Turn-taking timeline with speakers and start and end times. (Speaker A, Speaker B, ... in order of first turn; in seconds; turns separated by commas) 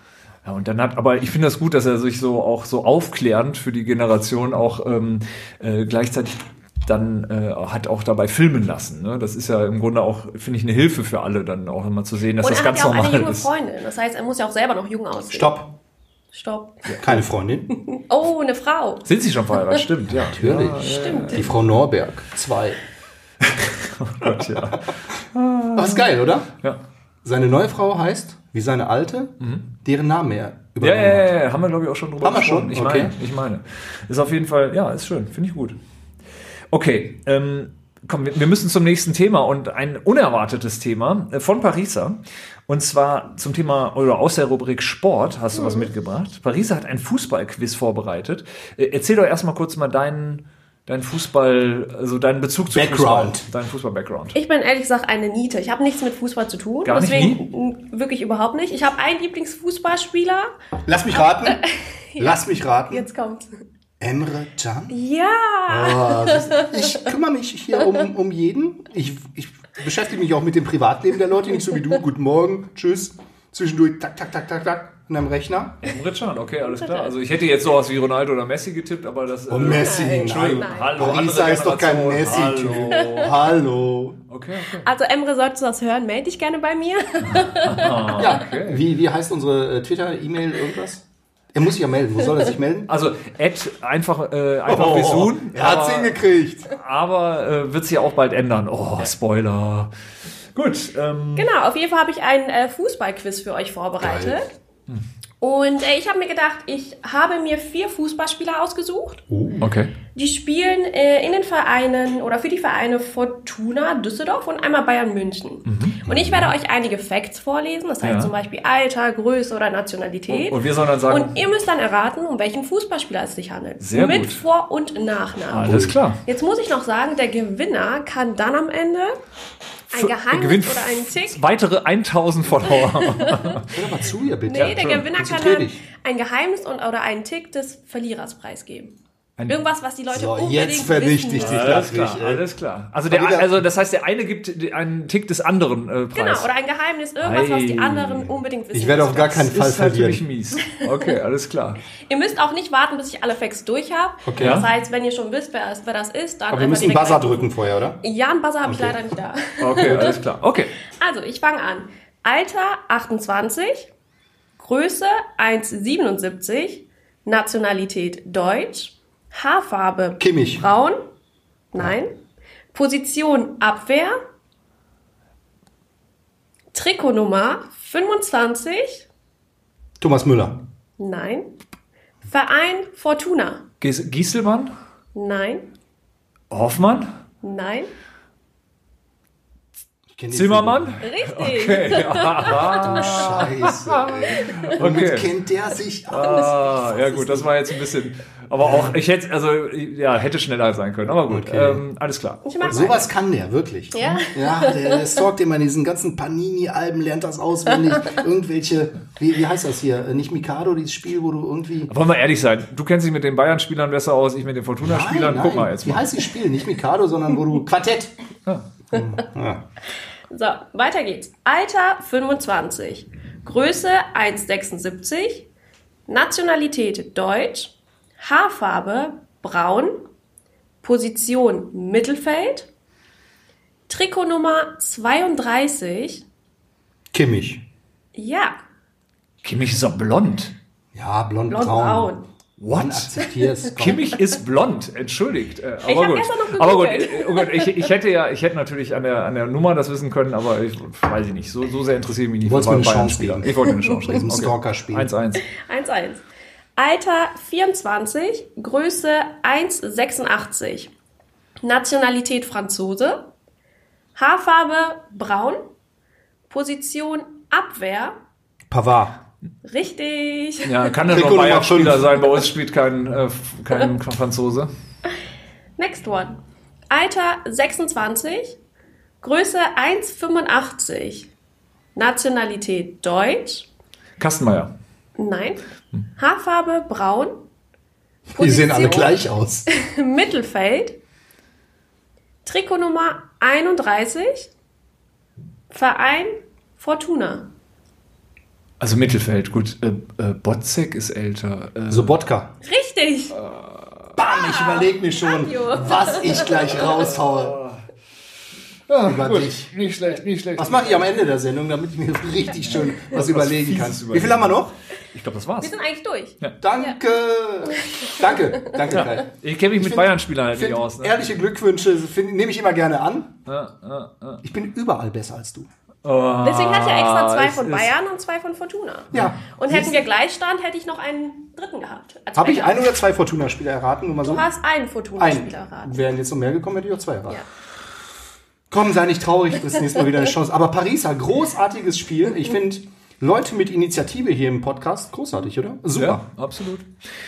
Speaker A: 0.4-13.5, Speaker B: 12.4-15.5, Speaker C: 15.3-15.7, Speaker B: 16.3-16.9, Speaker C: 17.0-17.7, Speaker B: 17.9-19.8, Speaker A: 19.0-21.5, Speaker C: 20.1-22.8, Speaker B: 20.8-21.5, Speaker A: 23.4-26.1, Speaker C: 25.7-26.5, Speaker C: 27.2-31.3, Speaker A: 29.4-29.6, Speaker A: 30.8-35.8, Speaker C: 32.2-33.1, Speaker A: 36.7-54.4, Speaker B: 45.5-45.9, Speaker C: 52.7-53.5, Speaker B: 54.3-60.5, Speaker A: 56.8-57.4, Speaker C: 60.9-61.6, Speaker B: 61.3-63.6, Speaker C: 62.2-63.1, Speaker C: 64.0-64.9, Speaker B: 64.9-67.0, Speaker C: 65.7-75.8, Speaker A: 75.8-83.3, Speaker B: 76.8-77.1, Speaker C: 79.5-84.2, Speaker B: 79.7-81.0, Speaker B: 82.9-83.2, Speaker A: 84.3-84.9, Speaker B: 84.8-88.2, Speaker A: 87.3-88.8, Speaker C: 88.2-91.0, Speaker C: 91.5-92.9, Speaker A: 92.9-99.9, Speaker C: 94.7-96.7, Speaker A: 100.5-101.5, Speaker B: 101.3-104.4, Speaker C: 104.0-104.4, Speaker B: 105.4-109.2, Speaker C: 109.3-109.6, Speaker A: 109.6-109.9, Speaker B: 110.1-129.2, Speaker A: 115.7-116.0, Speaker C: 116.1-116.5, Speaker A: 118.0-118.3, Speaker A: 120.3-121.4, Speaker A: 123.8-124.4, Speaker A: 125.5-126.2, Speaker C: 125.6-126.0, Speaker A: 129.9-133.7, Speaker B: 129.9-131.4, Speaker B: 132.9-133.6, Speaker C: 133.7-135.8, Speaker B: 134.5-138.9, Speaker A: 134.5-135.1, Speaker B: 139.5-141.7, Speaker C: 140.1-142.4, Speaker A: 141.4-146.5, Speaker C: 143.1-143.6, Speaker B: 146.1-149.4, Speaker A: 147.2-148.3, Speaker C: 148.7-150.2, Speaker A: 149.3-151.8, Speaker B: 152.1-157.5, Speaker C: 154.2-154.6, Speaker A: 154.4-154.7, Speaker C: 156.5-158.0, Speaker B: 158.0-160.2, Speaker C: 158.6-159.0, Speaker A: 159.6-160.7, Speaker B: 160.9-163.9, Speaker B: 164.6-171.0, Speaker C: 170.2-170.6, Speaker B: 171.7-172.1, Speaker B: 172.7-174.2, Speaker B: 176.7-179.1, Speaker C: 180.0-180.6, Speaker B: 181.0-181.5, Speaker B: 182.2-183.6, Speaker A: 183.8-184.7, Speaker B: 185.1-185.6, Speaker A: 186.5-187.1, Speaker B: 187.4-187.9, Speaker C: 190.1-190.9, Speaker A: 190.3-195.3, Speaker B: 191.0-193.4, Speaker C: 192.5-197.5, Speaker B: 194.4-194.7, Speaker A: 196.1-202.9, Speaker C: 198.6-198.9, Speaker C: 201.3-201.8, Speaker B: 202.4-203.1, Speaker C: 202.7-211.9, Speaker B: 203.9-205.1, Speaker A: 211.9-216.1, Speaker C: 214.8-218.1, Speaker C: 218.9-219.6, Speaker B: 220.3-225.5, Speaker B: 226.1-230.0, Speaker B: 230.8-232.7, Speaker B: 233.9-236.2, Speaker C: 237.1-237.6, Speaker B: 238.1-238.6, Speaker A: 239.4-240.5, Speaker C: 240.9-242.1, Speaker B: 241.5-242.2, Speaker A: 242.6-243.1, Speaker C: 242.7-244.1, Speaker A: 243.8-255.5, Speaker B: 245.8-247.9, Speaker C: 252.4-253.5, Speaker C: 254.0-255.1, Speaker B: 255.5-256.2, Speaker B: 256.8-260.9, Speaker B: 261.6-263.3, Speaker B: 264.1-265.6, Speaker B: 266.5-268.2, Speaker C: 268.7-269.2, Speaker B: 269.6-270.9, Speaker A: 270.6-274.7, Speaker C: 271.1-272.2, Speaker B: 275.8-276.4, Speaker B: 276.9-278.6, Speaker B: 279.2-281.3, Speaker B: 281.9-283.7, Speaker A: 284.2-284.7, Speaker B: 285.2-285.6, Speaker B: 286.2-287.4, Speaker C: 288.3-289.6, Speaker B: 288.4-291.0, Speaker B: 292.4-294.5, Speaker B: 295.7-297.5, Speaker A: 298.8-302.2, Speaker C: 301.9-302.5, Speaker B: 302.6-303.4, Speaker A: 303.3-304.1, Speaker C: 304.1-307.6, Speaker B: 304.2-307.0, Speaker A: 306.7-307.8, Speaker A: 308.9-311.1, Speaker C: 309.0-309.7, Speaker C: 310.6-314.7, Speaker A: 312.6-314.6, Speaker A: 315.1-315.8, Speaker B: 315.6-316.9, Speaker C: 316.6-323.3, Speaker B: 317.7-318.1, Speaker A: 318.9-321.2, Speaker A: 323.5-324.4, Speaker C: 324.4-325.7, Speaker A: 326.0-327.9, Speaker B: 326.4-332.9, Speaker C: 329.1-330.0, Speaker C: 332.3-334.4, Speaker B: 334.2-336.0, Speaker C: 335.2-337.4, Speaker C: 338.7-346.2, Speaker A: 345.9-346.9